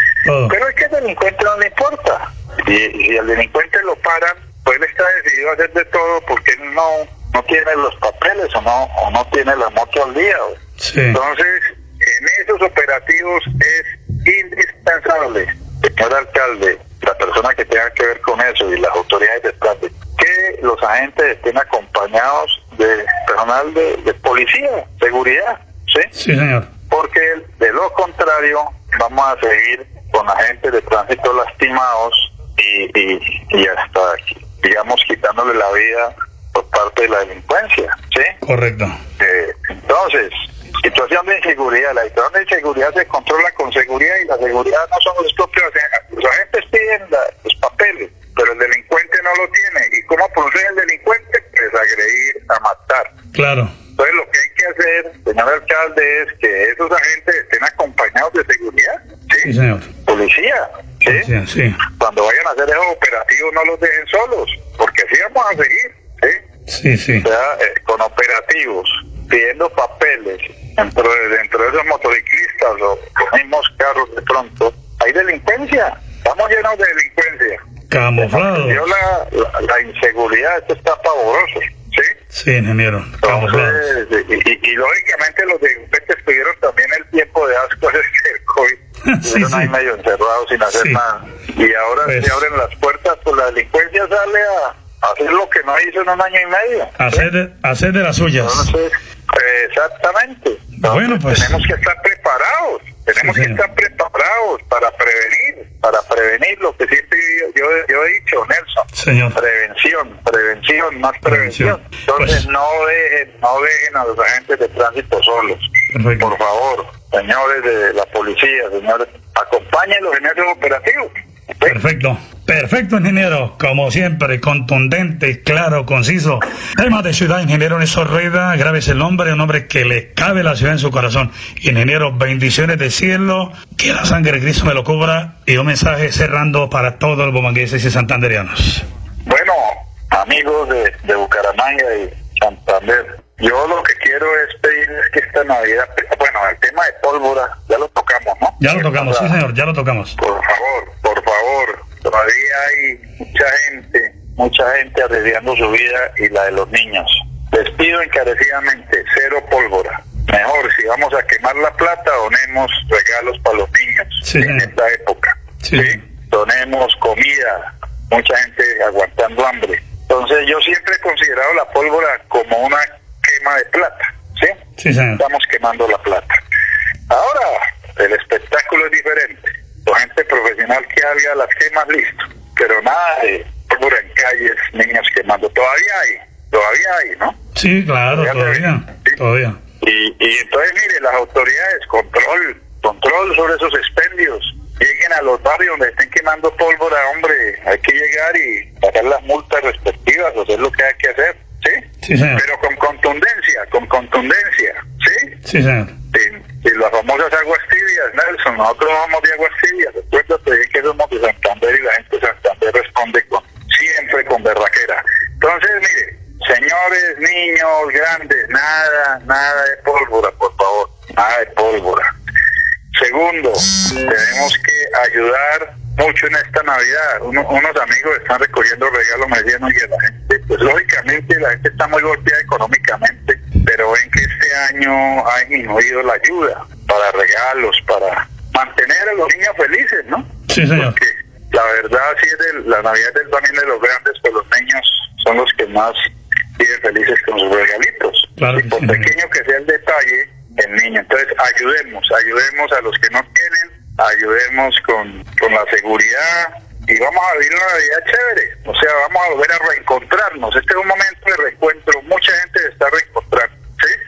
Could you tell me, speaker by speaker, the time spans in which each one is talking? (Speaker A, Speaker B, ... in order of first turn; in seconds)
Speaker A: 0.3-0.5, 10.8-11.2, 26.2-26.7, 38.4-39.0, 53.4-53.7, 59.5-59.9, 61.1-61.8, 66.7-67.2, 77.9-78.8, 82.3-83.8, 89.1-89.7, 90.7-91.0, 92.1-92.4, 97.0-98.7, 100.8-101.5, 103.2-103.6, 109.0-109.4, 111.2-112.4, 115.9-116.3, 121.7-138.8, 148.6-150.2, 164.2-164.7, 165.6-165.9, 174.8-175.2, 187.6-189.6, 202.0-202.4, 205.5-205.9, 240.5-241.0, 248.4-249.1
Speaker B: 0.5-10.6, 11.1-26.1, 26.9-38.3, 39.2-53.1, 54.0-59.5, 60.1-61.3, 61.9-66.4, 67.2-77.6, 78.2-82.1, 83.2-97.3, 98.4-115.7, 116.2-121.1, 139.3-149.4, 150.2-174.6, 175.2-176.4, 177.1-187.3, 188.1-189.2, 189.8-201.8, 202.3-205.3, 206.1-222.1, 222.9-246.0, 246.6-264.0